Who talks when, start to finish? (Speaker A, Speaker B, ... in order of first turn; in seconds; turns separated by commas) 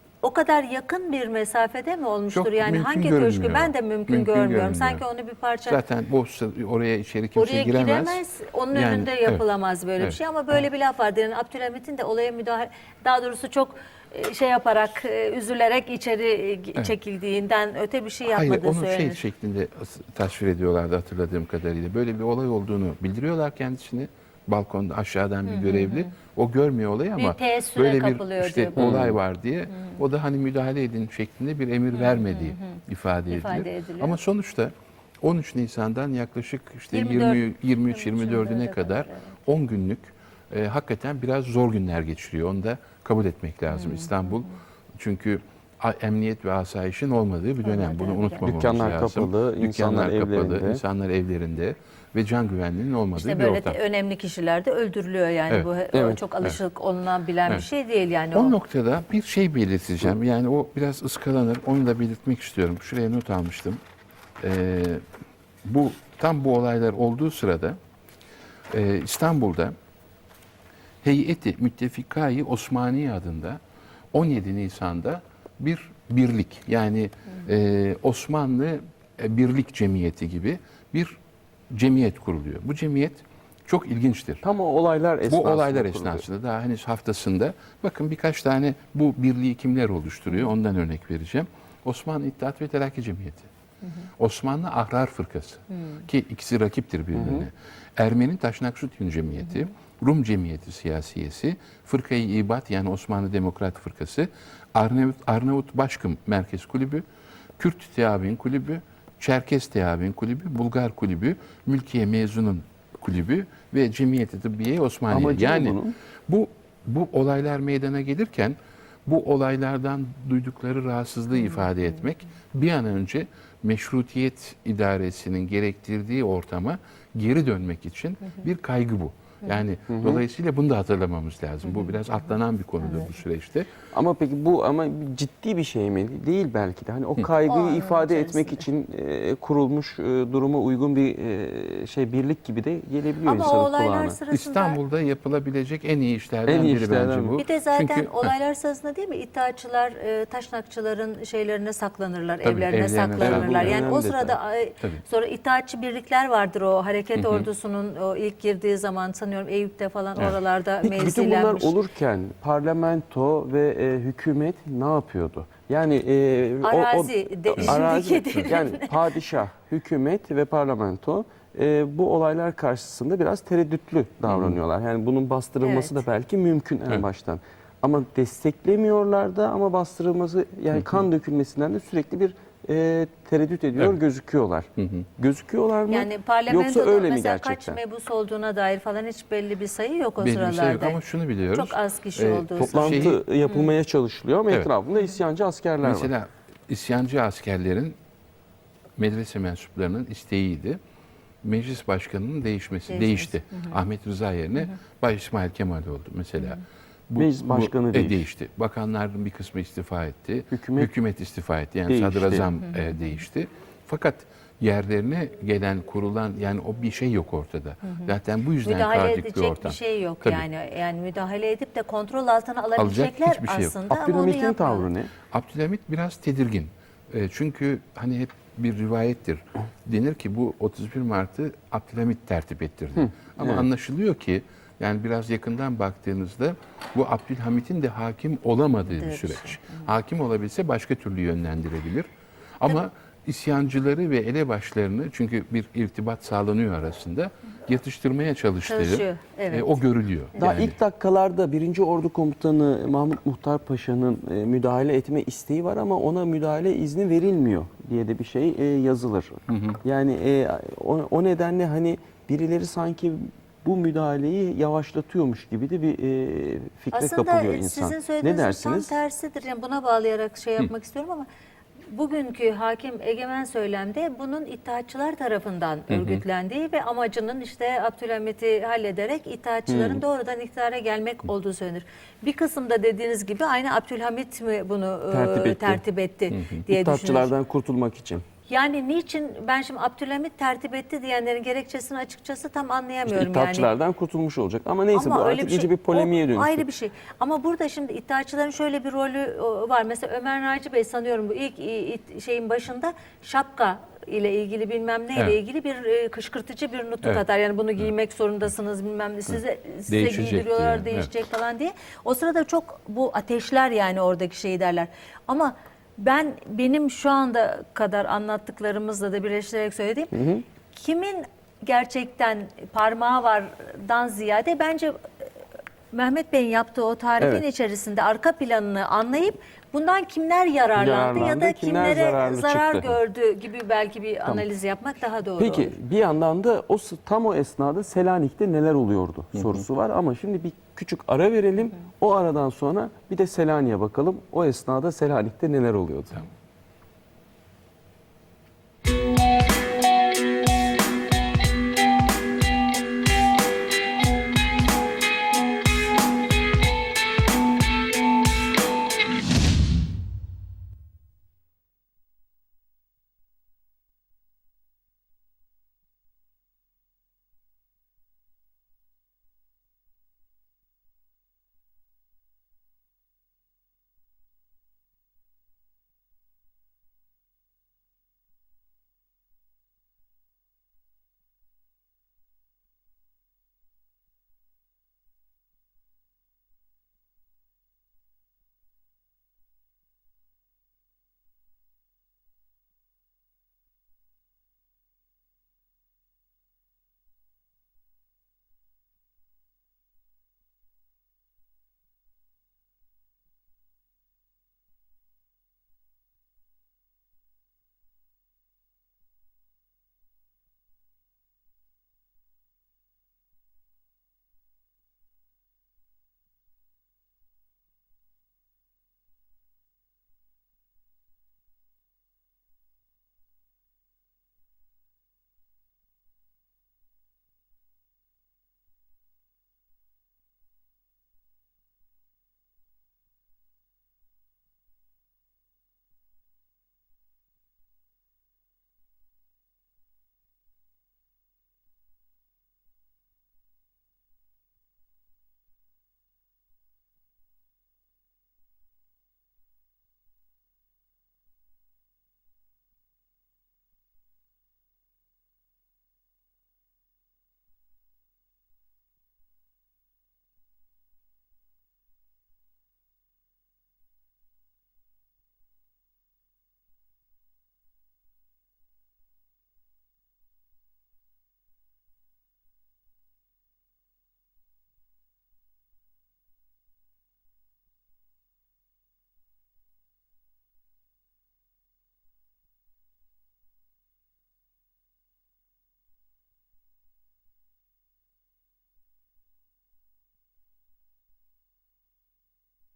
Speaker A: 0.2-5.8, Speaker B: 2.3-5.0, Speaker B: 5.7-8.2, Speaker A: 7.4-19.2, Speaker B: 8.7-9.4, Speaker B: 18.3-53.8, Speaker A: 25.5-26.1, Speaker A: 27.2-29.0, Speaker C: 28.8-29.1, Speaker A: 32.0-34.2, Speaker A: 36.9-39.3, Speaker A: 43.7-44.3, Speaker A: 47.6-48.5, Speaker C: 48.4-50.8, Speaker A: 53.2-58.5, Speaker C: 55.9-56.2, Speaker B: 58.3-63.8, Speaker B: 64.4-65.0, Speaker B: 65.6-67.8, Speaker B: 68.7-69.7, Speaker B: 71.0-73.6, Speaker B: 74.1-81.2, Speaker B: 81.7-84.4, Speaker C: 84.4-86.2, Speaker B: 85.3-93.5, Speaker B: 94.2-107.0, Speaker A: 95.7-96.0, Speaker C: 97.2-97.5, Speaker B: 107.6-133.7, Speaker C: 115.1-115.9, Speaker C: 129.9-130.2, Speaker C: 133.9-144.2, Speaker A: 137.4-138.7, Speaker A: 143.2-144.8, Speaker B: 144.3-148.3, Speaker C: 146.5-147.4, Speaker A: 147.4-161.8, Speaker B: 152.4-153.8, Speaker C: 153.2-154.3, Speaker B: 157.2-157.5, Speaker C: 160.8-187.8, Speaker A: 166.6-168.9, Speaker B: 174.3-174.6, Speaker A: 175.6-176.1, Speaker B: 184.8-185.1, Speaker A: 185.9-191.0, Speaker B: 190.2-193.2, Speaker A: 191.5-193.7, Speaker C: 192.6-196.1, Speaker B: 195.8-198.0, Speaker B: 199.0-200.8, Speaker B: 201.4-220.5, Speaker A: 202.9-203.8, Speaker C: 207.2-208.2, Speaker C: 210.5-210.9, Speaker C: 211.9-212.5, Speaker A: 217.9-224.9, Speaker B: 222.8-223.8, Speaker C: 223.9-225.1, Speaker B: 225.3-242.1, Speaker C: 233.0-233.7, Speaker A: 238.9-239.9, Speaker B: 242.6-250.8, Speaker A: 248.7-249.8, Speaker C: 250.4-268.9, Speaker B: 259.5-259.8, Speaker A: 266.9-271.3, Speaker A: 271.9-287.3, Speaker B: 275.9-276.2, Speaker C: 279.7-280.0, Speaker C: 285.1-285.8, Speaker B: 286.3-286.6, Speaker C: 286.7-288.2, Speaker A: 288.5-293.7, Speaker C: 293.1-296.6, Speaker A: 294.9-320.1, Speaker B: 309.9-311.1, Speaker C: 320.1-320.4, Speaker A: 320.7-325.0, Speaker A: 325.9-335.8, Speaker C: 330.8-333.0, Speaker C: 335.4-346.2, Speaker B: 339.4-339.6